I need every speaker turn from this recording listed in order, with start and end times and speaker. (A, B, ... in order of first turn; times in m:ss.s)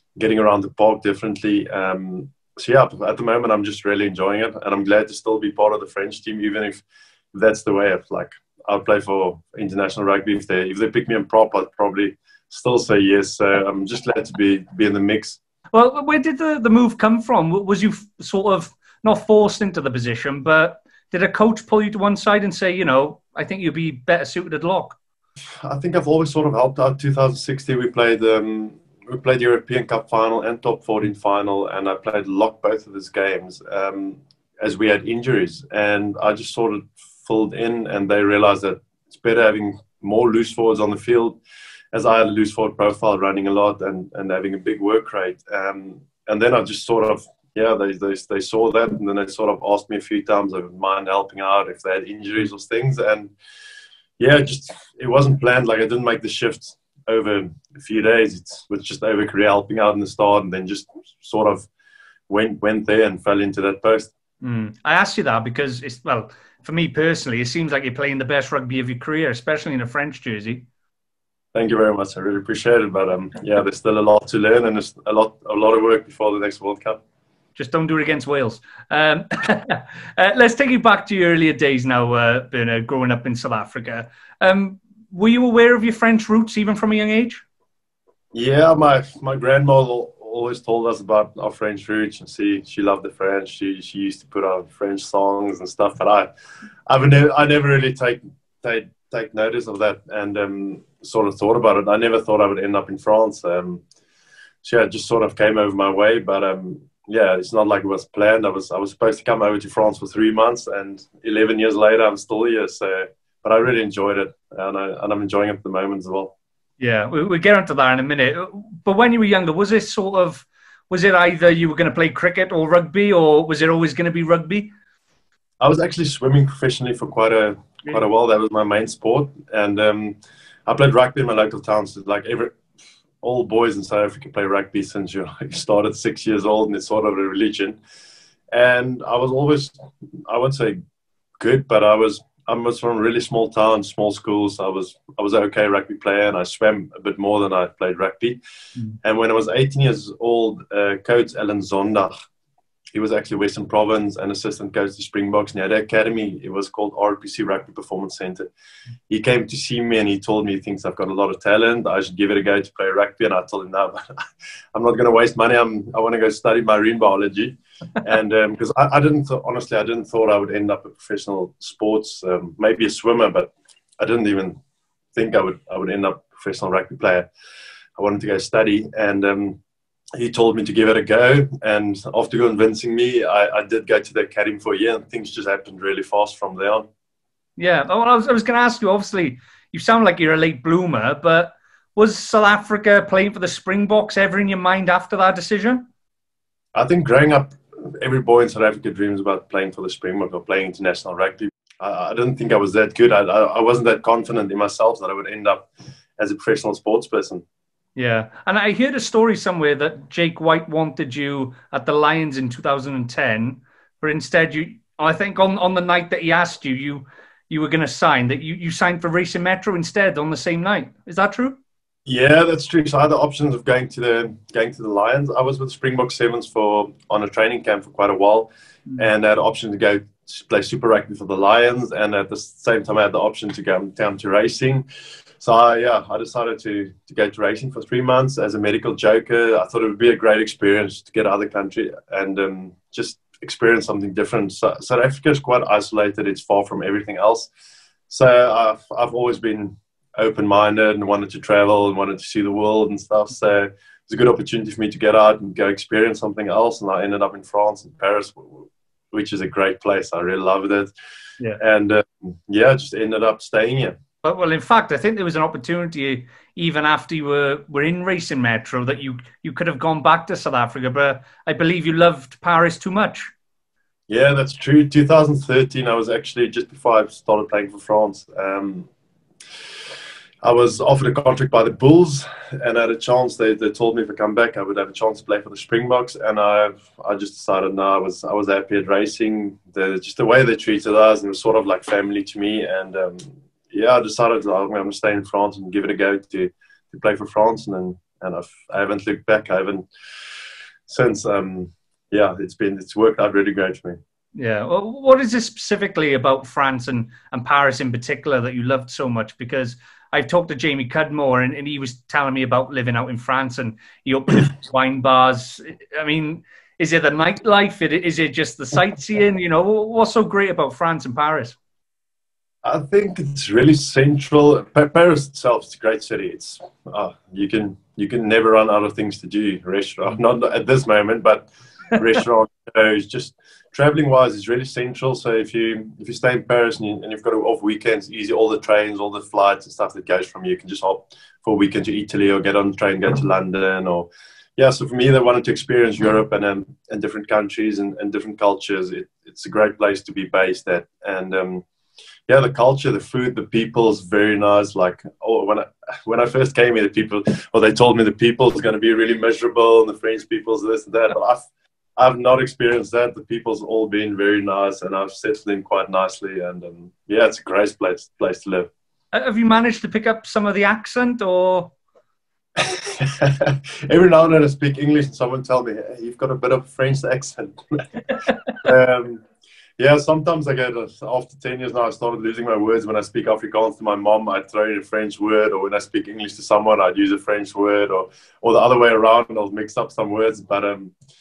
0:00.2-0:15.4 A
0:15.7-0:25.0 B
0:25.6-0:41.4 A
0:41.9-0:53.3 A
0:54.2-1:01.7 A
1:02.3-1:04.1 A
1:04.4-1:10.6 B
1:11.5-1:17.0 A
1:17.6-1:27.4 B
1:28.3-1:36.3 A
1:36.9-1:43.8 A
1:44.6-1:56.3 A
1:56.8-2:04.7 B
2:05.6-2:12.6 A
2:13.2-2:17.8 A
2:18.5-2:20.8 A
2:21.4-2:28.4 A
2:29.0-2:32.1 A
2:32.9-2:38.5 A
2:39.1-2:44.2 A
2:44.7-2:54.6 A
2:55.1-2:57.3 A
2:58.0-2:59.6 A
3:00.2-3:06.9 A
3:07.6-3:15.8 B
3:16.7-3:27.4 A
3:28.0-3:41.6 B
3:42.0-3:54.8 A
3:55.4-4:07.5 A
4:08.1-4:20.9 A
4:21.6-4:24.0 A
4:24.2-4:33.3 B
4:34.1-4:38.9 A
4:40.4-4:59.8 A
5:00.9-5:04.0 A
5:04.3-5:21.6 B
5:22.6-5:51.6 A
5:52.3-6:01.4 A
6:02.0-6:08.7 A
6:09.1-6:11.7 B
6:12.6-6:17.8 A
6:18.6-6:19.2 A
6:19.8-6:30.9 A